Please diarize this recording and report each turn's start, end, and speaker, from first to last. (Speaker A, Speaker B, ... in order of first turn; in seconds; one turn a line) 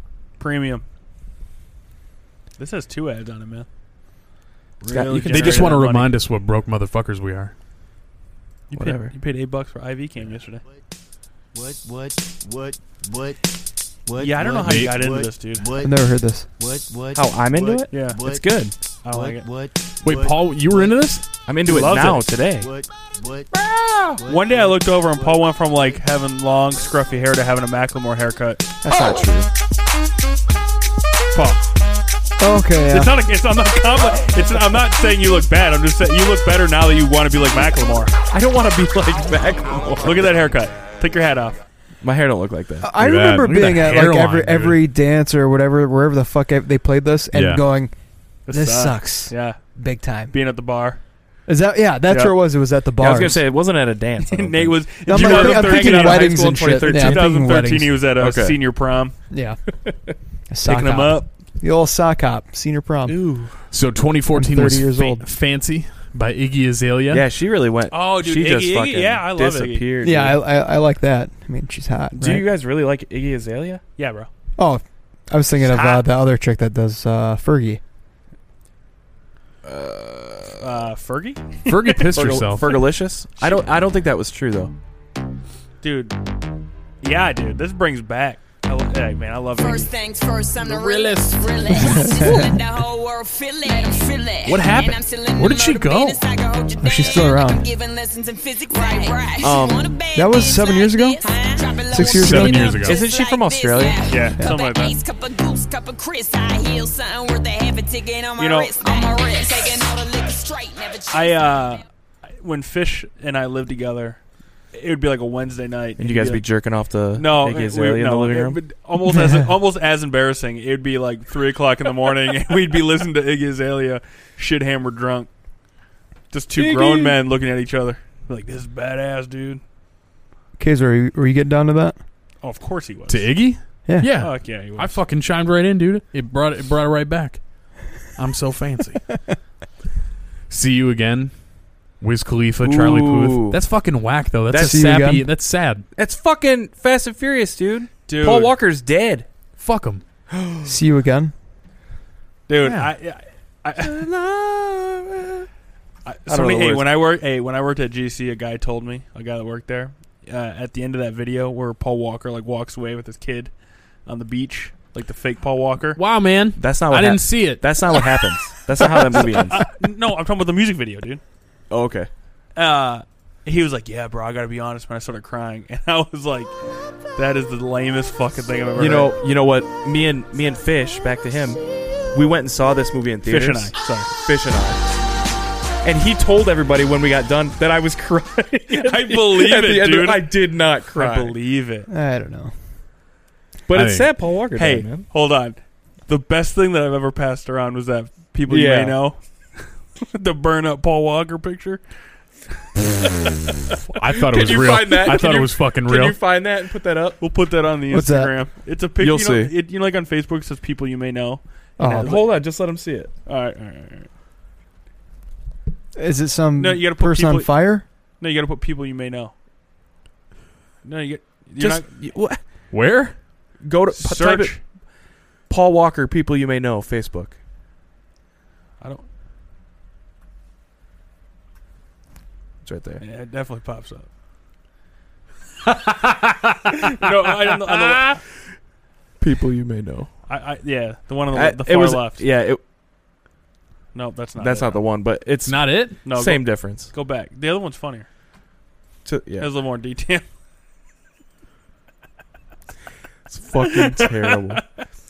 Speaker A: 0.4-0.8
Speaker A: 2.6-3.7
Speaker A: 4.8-6.1
Speaker B: 4.9-5.8
Speaker C: 5.3-7.5
Speaker A: 8.7-10.6
Speaker B: 8.7-9.1
Speaker D: 11.5-13.4
Speaker D: 14.1-18.6
Speaker A: 14.2-15.7
Speaker C: 14.7-15.0
Speaker E: 15.8-16.5
Speaker B: 17.1-18.7
Speaker A: 17.9-18.3
Speaker A: 19.0-19.5
Speaker D: 19.1-21.0
Speaker C: 20.0-21.2
Speaker B: 21.5-22.7
Speaker A: 21.6-22.3
Speaker D: 22.6-23.5
Speaker B: 23.6-24.2
Speaker D: 24.2-26.0
Speaker A: 24.3-28.7
Speaker E: 28.8-29.5
Speaker B: 28.9-29.5
Speaker A: 31.3-31.6
Speaker E: 32.4-33.1
Speaker A: 32.9-38.1
Speaker B: 38.3-40.4
Speaker A: 40.0-41.6
Speaker B: 42.0-42.9
Speaker E: 42.8-47.9
Speaker C: 43.0-44.8
Speaker C: 47.3-47.6
Speaker A: 48.5-49.6
Speaker E: 48.5-50.3
Speaker A: 50.3-51.0
Speaker E: 51.5-53.4
Speaker A: 52.1-52.4
Speaker B: 53.0-57.4
Speaker A: 54.2-59.1
Speaker E: 55.1-58.0
Speaker B: 58.2-58.6
Speaker E: 59.3-59.6
Speaker E: 60.5-63.2
Speaker A: 60.6-61.3
Speaker B: 63.1-63.5
Speaker C: 63.7-67.2
Speaker E: 64.3-65.2
Speaker B: 67.1-70.4
Speaker A: 67.9-69.9
Speaker E: 70.0-72.5
Speaker B: 72.2-73.8
Speaker A: 74.0-74.3
Speaker E: 74.6-77.8
Speaker A: 75.6-76.0
Speaker B: 79.6-80.8
Speaker A: 80.6-82.0
Speaker C: 81.7-82.7
Speaker B: 82.1-84.7
Speaker A: 85.8-86.2
Speaker A: 87.0-89.9
Speaker F: 89.6-111.8
Speaker C: 90.6-91.7
Speaker E: 91.8-92.5
Speaker C: 94.5-96.2
Speaker E: 96.8-97.7
Speaker B: 99.4-99.9
Speaker E: 100.2-102.8
Speaker C: 101.9-103.0
Speaker B: 102.8-104.2
Speaker A: 104.1-105.0
Speaker A: 108.4-109.1
Speaker A: 111.1-114.2
Speaker A: 114.7-116.4
Speaker B: 116.0-118.6
Speaker A: 117.2-125.3
Speaker E: 119.0-119.5
Speaker A: 126.3-129.6
Speaker B: 126.6-127.1
Speaker E: 130.6-132.0
Speaker A: 132.4-133.3
Speaker C: 133.1-137.4
Speaker A: 134.2-135.0
Speaker C: 138.0-139.1
Speaker C: 140.5-141.3
Speaker C: 142.0-145.8
Speaker B: 142.6-143.6
Speaker B: 144.5-145.0
Speaker E: 144.5-145.3
Speaker B: 146.0-149.3
Speaker A: 148.1-148.5
Speaker C: 149.6-150.0
Speaker B: 150.3-150.7
Speaker E: 150.7-151.3
Speaker A: 152.5-154.1
Speaker C: 152.6-152.9
Speaker B: 153.8-155.5
Speaker A: 156.1-163.5
Speaker B: 156.3-156.9
Speaker A: 164.1-166.0
Speaker C: 165.9-167.8
Speaker B: 166.6-169.7
Speaker A: 168.8-171.2
Speaker B: 171.7-172.1
Speaker A: 172.6-176.5
Speaker A: 177.2-179.1
Speaker B: 178.8-181.6
Speaker B: 182.1-184.8
Speaker A: 183.2-184.1
Speaker B: 185.8-191.4
Speaker A: 188.7-190.3
Speaker A: 190.9-191.9
Speaker E: 191.9-192.5
Speaker B: 193.7-195.1
Speaker C: 193.7-194.1
Speaker A: 194.6-201.8
Speaker B: 198.5-199.0
Speaker C: 203.9-206.2
Speaker B: 204.1-207.2
Speaker A: 207.2-212.4
Speaker E: 207.9-208.4
Speaker B: 209.0-209.5
Speaker E: 211.8-212.2
Speaker B: 211.8-213.1
Speaker A: 213.3-214.1
Speaker E: 216.0-217.8
Speaker A: 216.6-217.7
Speaker A: 218.2-219.3
Speaker A: 220.8-221.9
Speaker B: 221.6-222.4
Speaker C: 222.7-223.2
Speaker B: 223.6-224.6
Speaker A: 224.0-224.6
Speaker B: 225.5-227.4
Speaker B: 232.6-233.0
Speaker A: 233.0-234.1
Speaker A: 236.7-238.2
Speaker B: 239.2-240.1
Speaker A: 240.3-242.2
Speaker B: 241.3-242.6
Speaker A: 243.9-244.8
Speaker B: 244.4-246.9
Speaker C: 245.4-246.0
Speaker A: 246.1-248.1
Speaker B: 249.1-249.5
Speaker A: 249.4-250.2
Speaker B: 253.3-254.6
Speaker A: 253.7-254.8